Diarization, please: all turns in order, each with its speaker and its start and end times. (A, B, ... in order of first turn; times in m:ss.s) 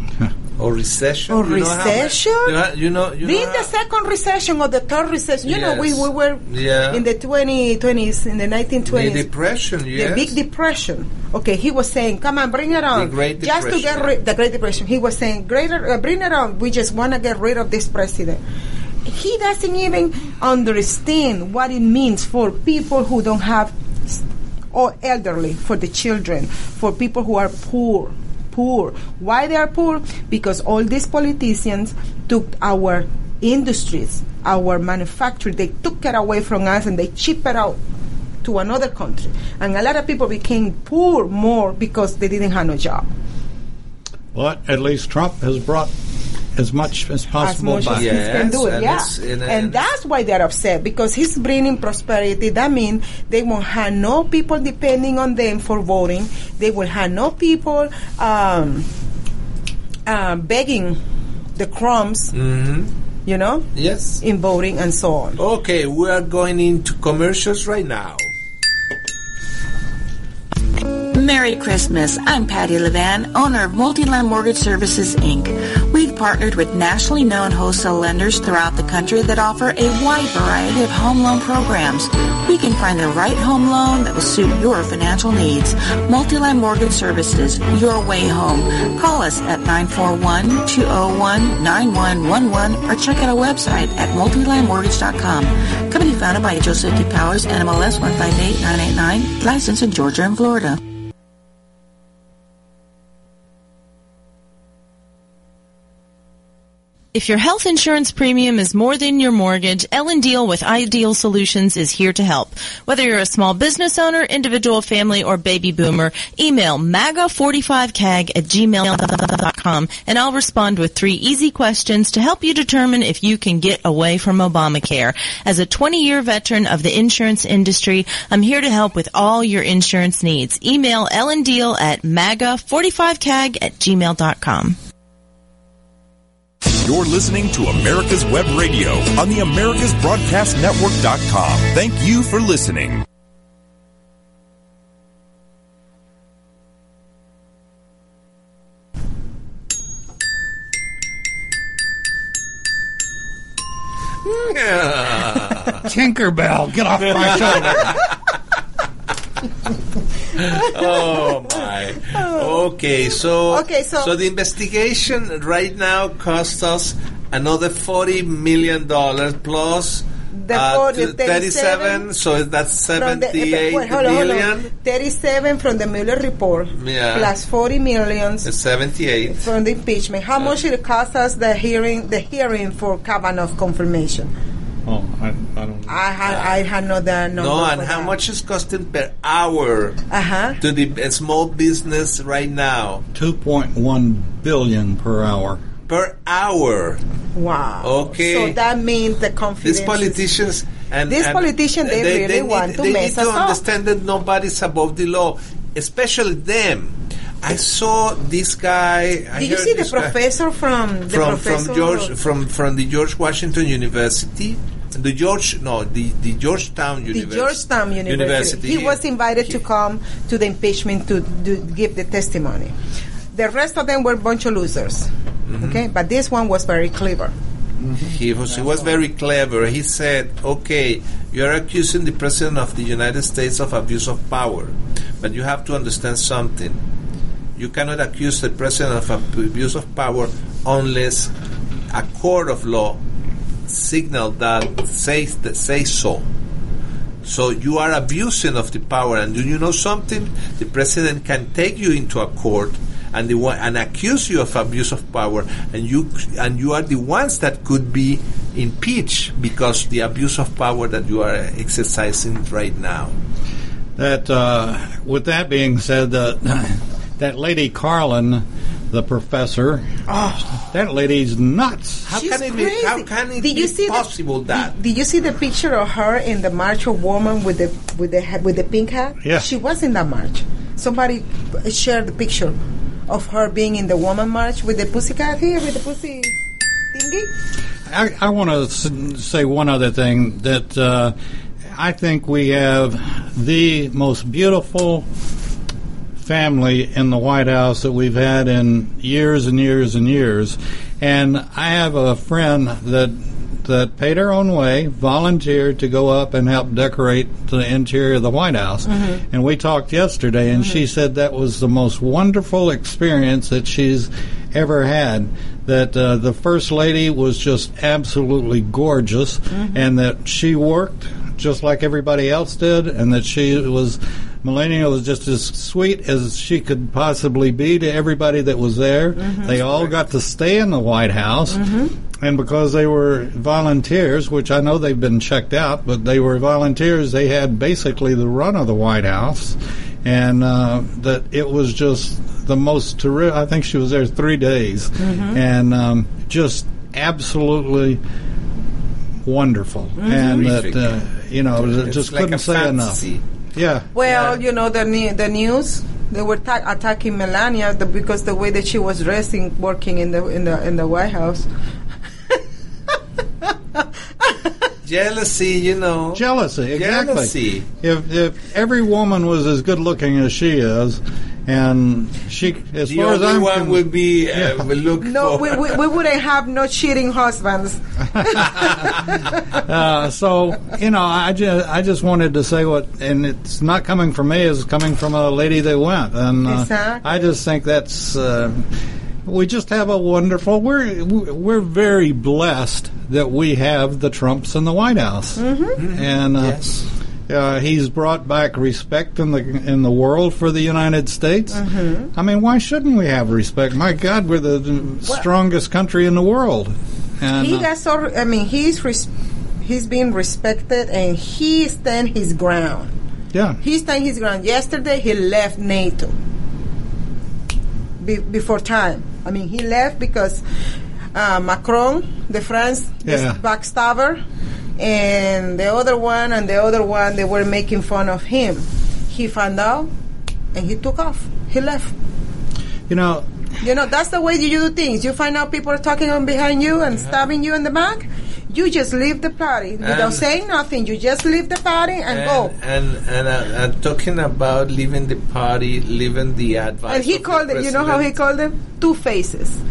0:00.6-0:03.7 A
0:01.3-0:02.6 B
0:03.2-0:09.3 B
0:05.4-0:07.0 A
0:08.9-0:10.4 A
0:09.9-0:18.4 B
0:12.9-0:14.1 A
0:19.0-0:24.2 B
0:24.7-0:37.8 B
0:38.4-0:43.1 B
0:44.3-0:45.9 C
0:46.6-0:48.2 C
0:47.4-0:58.9 B
0:47.9-0:49.8 A
1:00.1-1:01.0 B
1:01.6-1:02.3 B
1:02.3-1:02.9 A
1:03.3-1:03.7 B
1:03.8-1:04.2 A
1:04.2-1:05.4 B
1:05.4-1:08.3 A
1:11.1-1:40.8 D
1:47.1-2:14.8 E
2:16.8-2:23.0 F
2:34.3-2:35.8 A
2:35.8-2:38.0 C
2:37.1-2:38.1 A
2:40.4-2:54.7 A
2:40.4-2:41.2 B
2:42.1-2:42.6 B
2:43.5-2:44.1 B
2:50.3-2:52.1 B
2:53.0-2:58.5 B
2:56.8-2:57.3 A
2:58.4-2:59.5 A
2:59.3-3:04.3 B
3:04.9-3:06.0 C
3:05.9-3:08.2 B
3:06.2-3:06.6 A
3:07.4-3:10.0 A
3:10.1-3:10.6 B
3:10.6-3:13.0 A
3:13.1-3:15.6 C
3:15.9-3:17.0 A
3:17.4-3:20.2 B
3:17.8-3:18.6 A
3:19.6-3:30.2 A
3:21.1-3:23.6 B
3:29.3-3:32.1 B
3:31.1-3:39.6 A
3:37.1-3:42.7 B
3:43.3-3:45.1 B
3:45.5-3:45.8 A
3:45.6-3:47.3 B
3:47.8-3:48.9 C
3:48.1-3:56.8 A
3:57.6-4:01.3 A
4:01.9-4:03.0 A
4:03.7-4:06.3 A
4:07.2-4:23.1 A
4:24.0-4:29.9 C
4:30.1-4:30.6 B
4:30.6-4:32.1 C
4:32.1-4:34.7 A
4:32.1-4:42.6 B
4:43.1-4:46.4 B
4:46.9-4:47.3 B
4:47.9-4:51.1 C
4:51.7-4:55.1 C
4:56.2-5:31.7 C
5:08.9-5:09.2 B
5:19.5-5:19.8 B
5:29.2-5:29.5 B
5:29.5-5:29.9 A
5:31.5-5:31.9 B
5:32.2-5:48.0 C
5:45.0-5:45.4 B
5:49.2-5:53.0 C
5:50.0-5:50.4 B
5:50.1-5:51.0 A
5:51.6-5:53.2 A
5:53.6-5:53.9 C
5:54.0-6:01.5 B
5:54.0-5:54.4 A
6:03.8-6:04.4 B
6:04.8-6:07.7 A
6:06.2-6:14.7 C
6:12.8-6:15.8 A
6:15.0-6:19.1 B
6:18.2-6:18.6 C
6:19.5-6:28.7 C
6:26.4-6:27.2 B
6:29.2-6:36.6 C
6:35.4-6:35.8 B
6:35.8-6:36.9 A
6:37.3-6:47.7 C
6:41.5-6:42.1 B
6:47.3-6:49.1 B
6:49.6-6:52.9 B
6:53.3-6:53.6 C
6:53.6-6:56.2 B
6:58.0-7:00.4 B
7:01.1-7:04.2 B
7:03.0-7:03.4 C
7:04.8-7:09.9 B
7:10.5-7:11.9 B
7:12.9-7:13.3 C
7:13.6-7:22.5 B
7:19.8-7:20.2 A
7:22.1-7:28.2 A
7:26.9-7:29.6 B